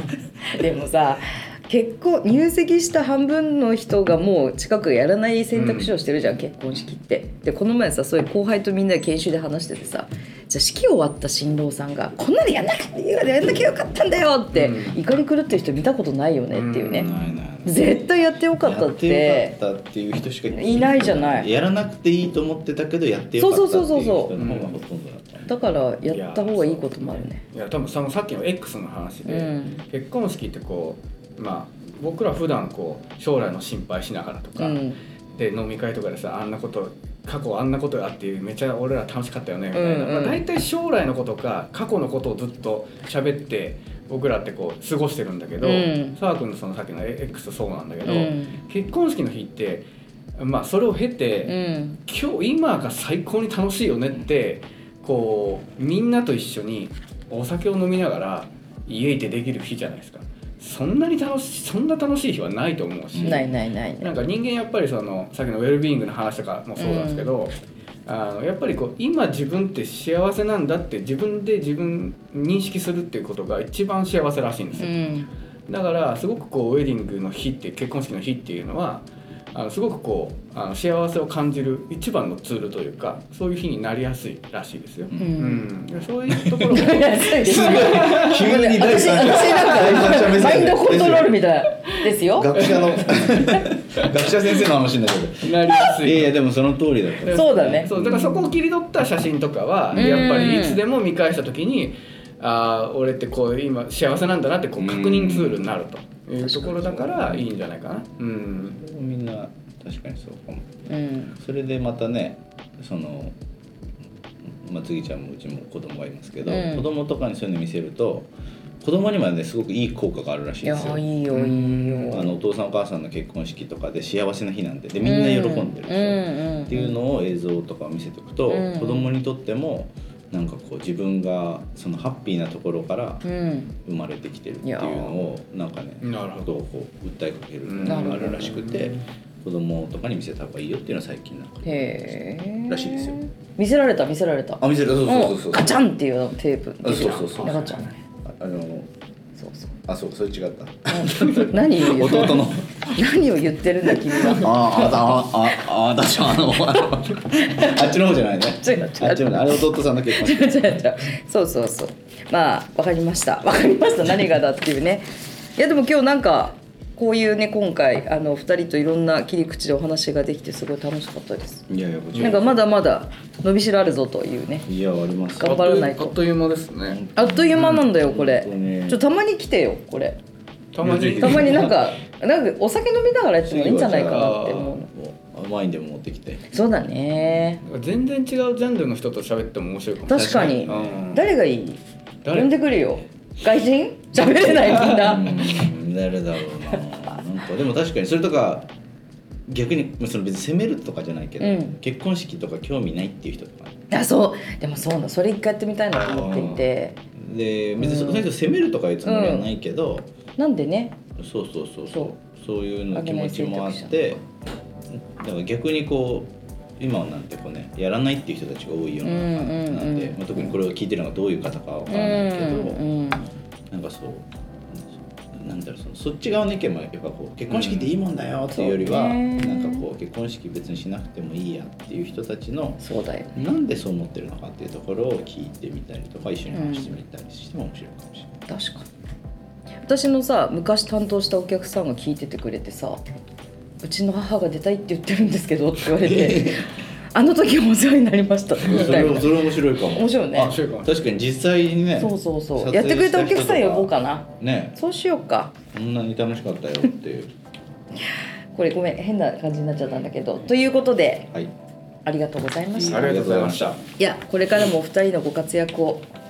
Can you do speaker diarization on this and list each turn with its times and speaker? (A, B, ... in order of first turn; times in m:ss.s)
0:00.4-0:17.1 A
0:05.5-0:05.9 B
0:14.5-0:15.0 B
0:16.5-0:17.4 B
0:17.0-0:18.1 C
0:17.6-0:19.5 A
0:18.6-0:25.5 C
0:20.5-0:21.5 A
0:23.4-0:24.3 A
0:24.3-0:24.8 B
0:25.5-0:27.4 A
0:26.0-0:51.6 B
0:29.2-0:29.8 A
0:34.6-0:35.0 A
0:39.7-0:40.4 A
0:45.6-0:46.2 A
0:48.0-0:48.6 A
0:51.4-0:52.0 A
0:52.1-1:15.0 B
1:03.1-1:03.5 C
1:03.2-1:04.2 A
1:06.8-1:07.3 A
1:14.8-1:15.3 A
1:15.7-1:28.5 B
1:25.2-1:25.6 A
1:26.5-1:31.4 C
1:26.7-1:32.7 A
1:29.2-1:30.3 B
1:32.3-1:38.6 C
1:32.6-1:33.4 B
1:33.3-1:33.6 A
1:35.4-1:36.4 B
1:37.2-1:48.8 B
1:37.2-1:37.9 A
1:39.9-1:40.8 A
1:39.9-1:40.2 C
1:44.8-1:45.7 C
1:46.4-1:47.5 C
1:48.6-1:50.6 C
1:50.9-1:51.4 A
1:51.4-1:53.3 C
1:54.5-2:13.2 C
1:56.4-1:56.9 A
2:00.6-2:02.4 A
2:01.3-2:01.9 B
2:05.0-2:07.0 A
2:08.5-2:09.1 A
2:13.2-2:13.8 A
2:13.8-2:23.2 C
2:14.6-2:15.3 A
2:16.0-2:16.6 B
2:17.6-2:19.0 B
2:17.8-2:18.5 A
2:21.6-2:27.9 A
2:24.6-2:25.8 C
2:26.8-2:28.9 C
2:26.9-2:28.0 B
2:29.4-2:29.8 A
2:29.9-2:32.8 C
2:30.9-2:35.6 A
2:34.2-2:40.8 C
2:36.2-2:51.6 A
2:51.7-2:52.6 C
2:52.1-2:52.5 B
2:52.2-2:54.7 A
2:54.6-2:55.6 C
2:55.4-2:56.2 A
2:55.4-2:57.0 B
2:56.8-2:59.0 C
2:57.2-3:00.2 A
2:57.5-2:57.9 B
3:00.7-3:01.7 B
3:00.8-3:01.8 C
3:01.2-3:04.9 A
3:03.4-3:06.5 C
3:04.0-3:04.6 B
3:06.5-3:07.6 A
3:07.6-3:11.3 B
3:10.0-3:15.5 A
3:10.1-3:11.0 C
3:12.2-3:12.6 B
3:14.8-3:18.7 C
3:19.5-3:23.7 C
3:21.4-3:21.8 A
3:23.9-3:27.0 A
3:26.0-3:30.1 C
3:27.8-3:28.3 A
3:29.0-3:29.5 A
3:30.4-3:31.0 A
3:31.2-3:34.3 C
3:32.9-3:34.2 A
3:34.9-3:42.8 C
3:39.0-3:40.5 A
3:41.9-3:43.3 A
3:43.7-3:44.3 C
3:44.8-3:52.8 C
3:47.5-3:47.9 B
3:48.5-3:49.9 A
3:52.8-3:53.4 A
3:53.3-3:58.3 C
3:56.5-3:56.9 A
3:58.5-3:58.9 A
3:59.8-4:03.0 A
4:03.8-4:10.6 A
4:06.0-4:06.6 C
4:08.6-4:14.8 C
4:08.7-4:09.1 B
4:10.4-4:10.9 B
4:11.9-4:15.5 A
4:15.7-4:17.3 C
4:18.5-4:21.3 A
4:22.0-4:23.1 A
4:22.7-4:23.8 C
4:22.9-4:23.8 B
4:24.0-4:26.0 A